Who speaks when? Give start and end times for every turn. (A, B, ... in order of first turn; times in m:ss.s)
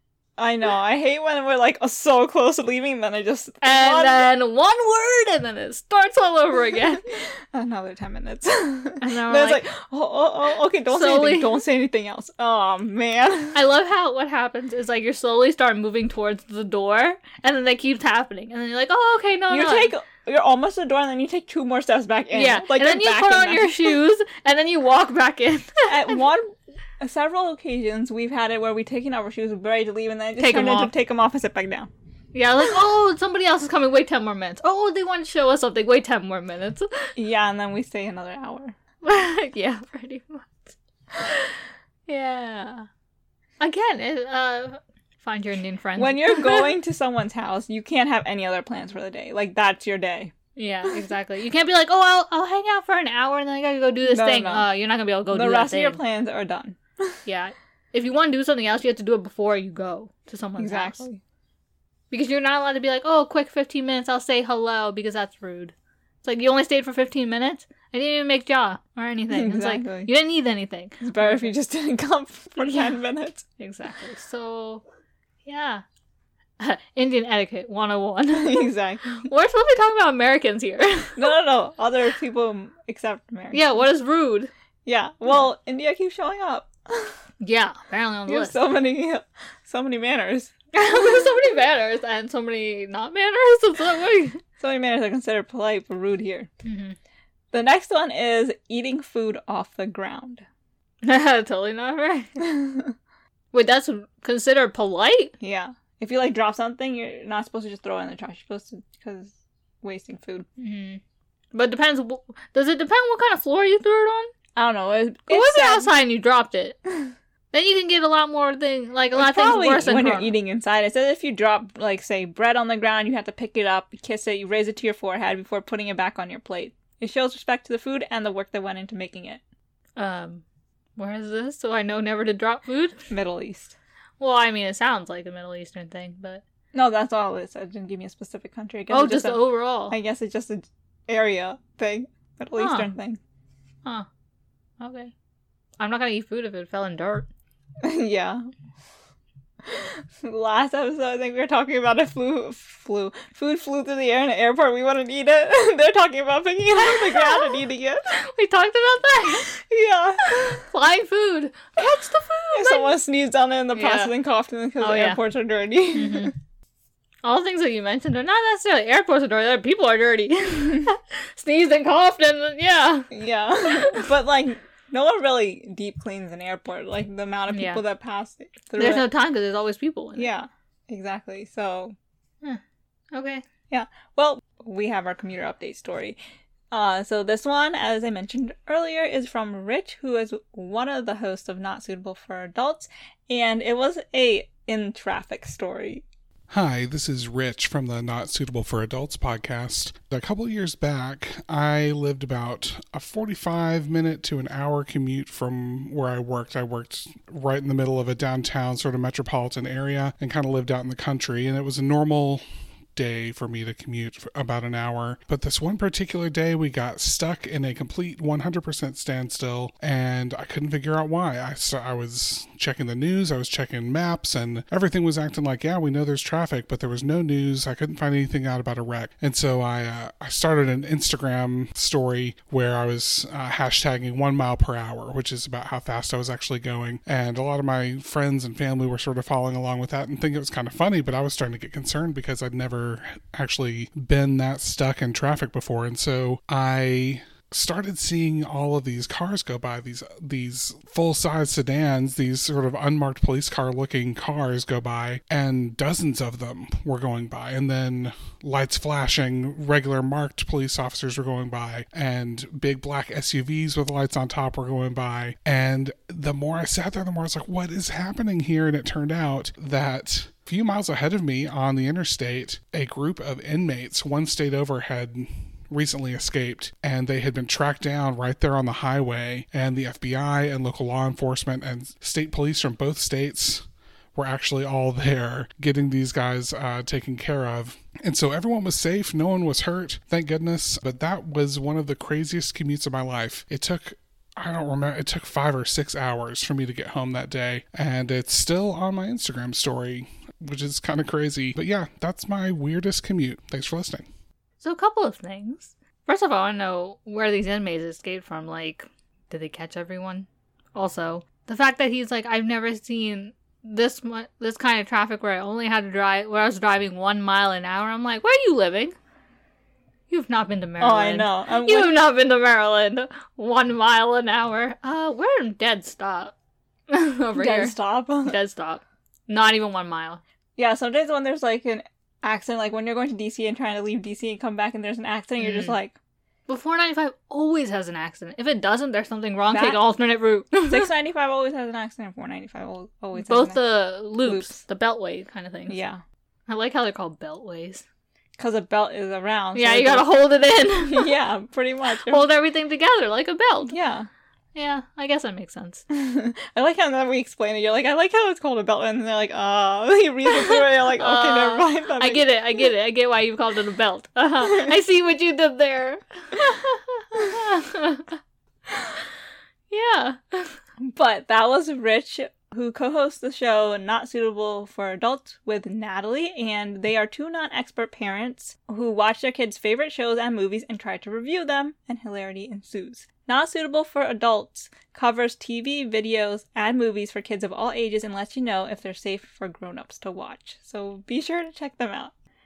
0:00.4-0:04.3 A
0:03.6-0:07.0 B
0:07.1-0:13.6 A
0:09.0-0:09.6 B
0:10.9-0:11.6 B
0:13.5-0:19.9 B
0:19.5-0:24.0 A
0:22.3-0:26.2 B
0:25.9-0:31.9 A
0:30.4-0:30.9 B
0:32.3-0:37.1 B
0:37.2-0:38.8 A
0:39.0-0:41.6 B
0:42.1-0:42.9 B
0:43.6-0:46.7 B
0:46.0-0:50.3 A
0:50.6-0:56.0 B
0:54.1-0:54.7 A
0:55.3-0:57.2 A
0:57.3-1:01.0 B
1:00.6-1:01.2 A
1:02.1-1:11.5 B
1:09.3-1:10.1 A
1:11.0-1:13.4 A
1:12.6-1:13.0 B
1:13.6-1:14.8 B
1:15.4-1:15.8 B
1:16.6-1:21.3 B
1:18.3-1:19.2 A
1:21.2-1:23.8 A
1:23.5-1:24.5 B
1:24.8-1:27.2 A
1:27.4-1:28.6 B
1:28.3-1:31.5 A
1:30.7-1:34.4 B
1:34.6-1:36.5 A
1:36.6-1:37.0 B
1:37.5-1:40.5 A
1:41.0-1:42.4 B
1:42.4-1:42.9 A
1:43.5-1:45.3 B
1:45.4-1:50.5 A
1:50.6-1:51.0 B
1:51.5-1:54.3 B
1:54.6-1:55.9 A
1:55.3-1:56.8 B
1:57.5-2:00.3 B
1:59.2-2:09.4 A
2:10.0-2:10.4 B
2:11.0-2:13.0 B
2:13.1-2:13.8 A
2:14.2-2:16.4 B
2:16.7-2:23.2 A
2:18.9-2:20.0 B
2:22.6-2:22.9 B
2:24.8-2:25.1 B
2:25.8-2:27.3 B
2:27.8-2:28.4 A
2:29.6-2:38.1 A
2:36.8-2:39.5 B
2:39.3-2:40.6 A
2:40.2-2:43.0 B
2:42.6-2:46.3 A
2:43.8-2:44.1 B
2:44.8-2:45.2 B
2:45.9-2:46.3 B
2:47.2-2:53.1 B
2:53.1-2:59.1 A
2:53.6-2:54.1 B
2:57.5-2:57.8 B
2:58.8-3:00.3 B
3:00.2-3:02.0 A
3:03.1-3:03.4 B
3:03.7-3:06.2 A
3:06.7-3:16.0 A
3:16.5-3:32.4 C
3:33.0-4:43.6 C
4:44.2-5:04.1 C
5:04.6-5:19.0 B
5:20.1-5:26.3 B
5:20.8-5:22.0 A
5:26.9-5:30.2 B
5:27.4-5:28.4 A
5:30.6-5:36.0 A
5:35.4-5:35.8 B
5:36.5-5:40.9 B
5:39.5-5:39.8 A
5:40.6-5:43.6 A
5:43.2-5:45.8 B
5:44.2-5:44.6 A
5:45.7-5:46.0 A
5:46.5-5:47.8 B
5:48.4-5:50.2 A
5:49.6-5:51.2 B
5:50.9-5:52.3 A
5:52.1-5:53.7 B
5:53.7-5:54.1 A
5:54.6-5:55.8 B
5:55.9-6:02.3 A
6:00.3-6:08.1 B
6:09.7-6:10.6 B
6:10.8-6:32.1 A